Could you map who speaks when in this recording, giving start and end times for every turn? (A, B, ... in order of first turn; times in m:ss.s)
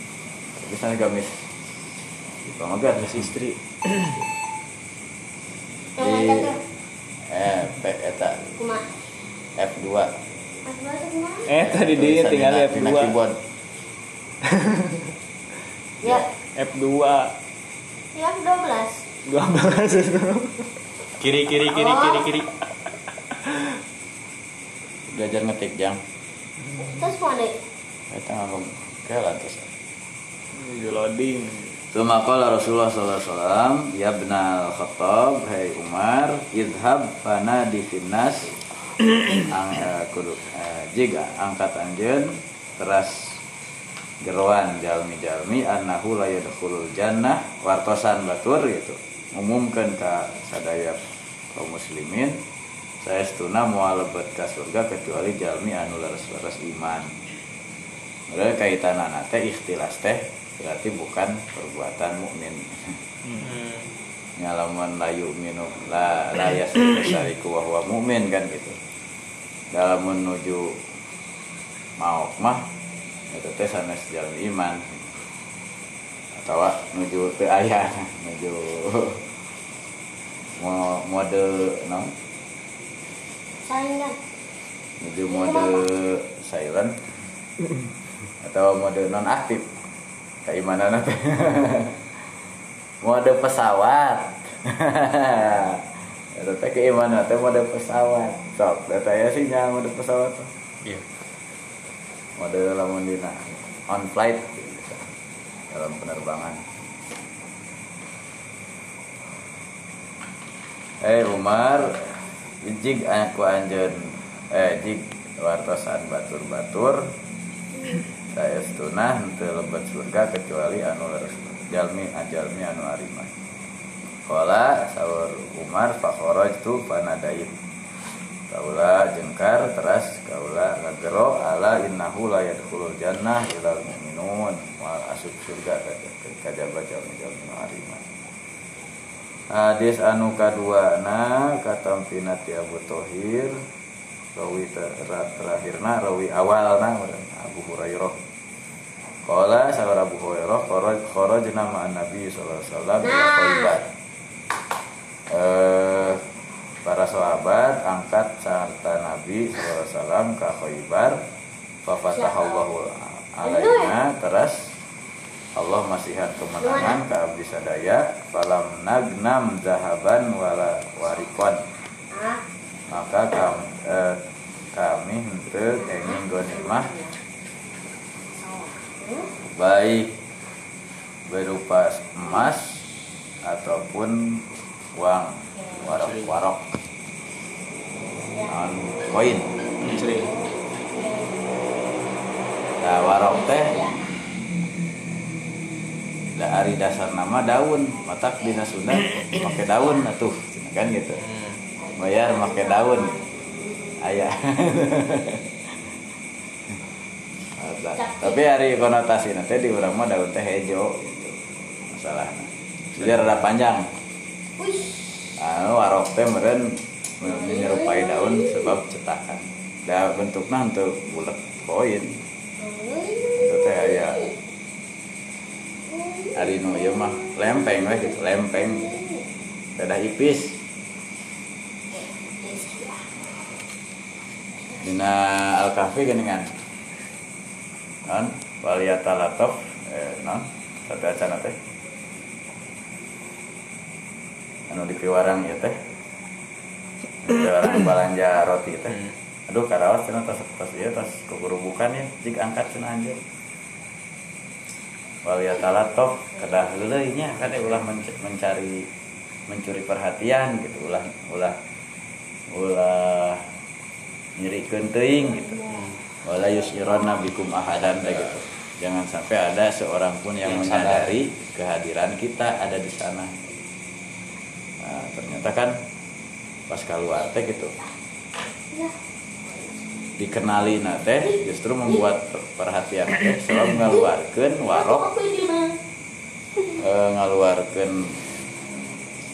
0:00.6-0:01.5 A
0:02.4-0:03.3 A
0:03.1-0:04.2 B
0:06.0-0:06.6 C
0:06.0-0:06.6 A
0:07.3-0:08.5 A
0:08.6-0:08.8 C
0:09.6-0:10.1 A
0:10.6-0:11.5 C
0:11.5-0:13.1 B
0:11.6-0:13.4 A
0:14.5-0:15.0 B
0:16.0-0:16.3 C
0:16.6-0:17.3 B
0:18.1-0:19.0 C
0:19.2-0:20.7 B
0:21.2-0:22.5 D
0:21.7-0:22.3 C
0:23.4-0:23.7 B
0:25.1-0:26.0 A
0:26.8-0:27.5 C
0:28.1-0:29.7 A
0:30.5-0:31.8 B
0:31.9-0:38.5 A
0:39.5-0:43.4 A
0:44.2-0:51.0 A
0:51.5-0:52.4 A
0:53.0-0:57.2 A
0:58.3-1:02.7 A
1:03.4-1:03.9 D
1:04.4-1:08.8 A
1:09.7-1:10.7 A
1:12.0-1:12.6 A
1:13.3-1:14.8 A
1:16.4-1:19.2 A
1:20.6-1:22.1 A
1:23.6-1:24.2 C
1:25.0-1:27.0 A
1:25.3-1:25.8 C
1:28.4-1:29.7 A
1:30.5-1:32.0 A
1:33.0-1:40.5 A
1:42.4-1:45.0 A
1:45.7-1:46.6 A
1:51.0-1:57.1 A
1:58.3-2:03.3 A
2:04.3-2:07.5 A
2:08.5-2:18.0 A
2:19.5-2:23.6 A
2:24.4-2:28.2 A
2:29.3-2:33.9 A
2:33.0-2:33.8 C
2:35.3-2:36.2 A
2:36.8-2:41.2 A
2:41.8-2:44.6 A
2:42.1-2:42.7 C
2:43.4-2:44.0 C
2:45.6-2:51.6 A
2:46.6-2:47.0 C
2:52.1-2:52.4 C
2:52.9-2:54.2 A
2:54.7-2:56.9 A
2:55.8-2:57.1 C
2:58.4-2:59.3 C
2:59.5-3:00.1 A
3:01.3-3:02.8 A
3:03.4-3:06.6 A
3:06.0-3:06.3 D
3:08.3-3:08.5 C
3:08.5-3:09.6 A
3:09.8-3:11.4 C
3:09.8-3:10.3 B
3:10.0-3:10.2 D
3:12.8-3:13.8 A
3:13.3-3:14.0 C
3:16.4-3:21.2 A
3:21.3-3:21.6 D
3:21.8-3:24.0 C
3:22.0-3:23.1 A
3:24.0-3:25.7 A
3:27.6-3:33.9 A
3:28.0-3:28.4 C
3:34.6-3:35.4 C
3:35.4-3:42.2 A
3:37.2-3:38.7 C
3:42.6-3:44.3 C
3:43.4-3:44.3 A
3:45.8-3:49.3 C
3:46.4-3:49.0 A
3:49.8-3:50.6 A
3:51.9-3:53.2 C
3:54.8-3:56.5 A
3:58.1-4:01.6 A
4:04.7-4:05.8 A
4:07.2-4:13.2 A
4:15.2-4:18.9 A
4:16.2-4:16.6 C
4:19.5-4:21.6 A
4:22.5-4:23.4 A
4:24.4-4:25.6 A
4:25.2-4:26.0 C
4:26.2-4:33.4 A
4:26.7-4:27.0 C
4:28.1-4:28.4 D
4:30.4-4:31.2 D
4:34.8-4:35.8 A
4:36.7-4:37.8 A
4:38.7-4:39.0 C
4:40.2-4:45.1 A
4:44.7-4:45.8 C
4:46.8-4:48.2 A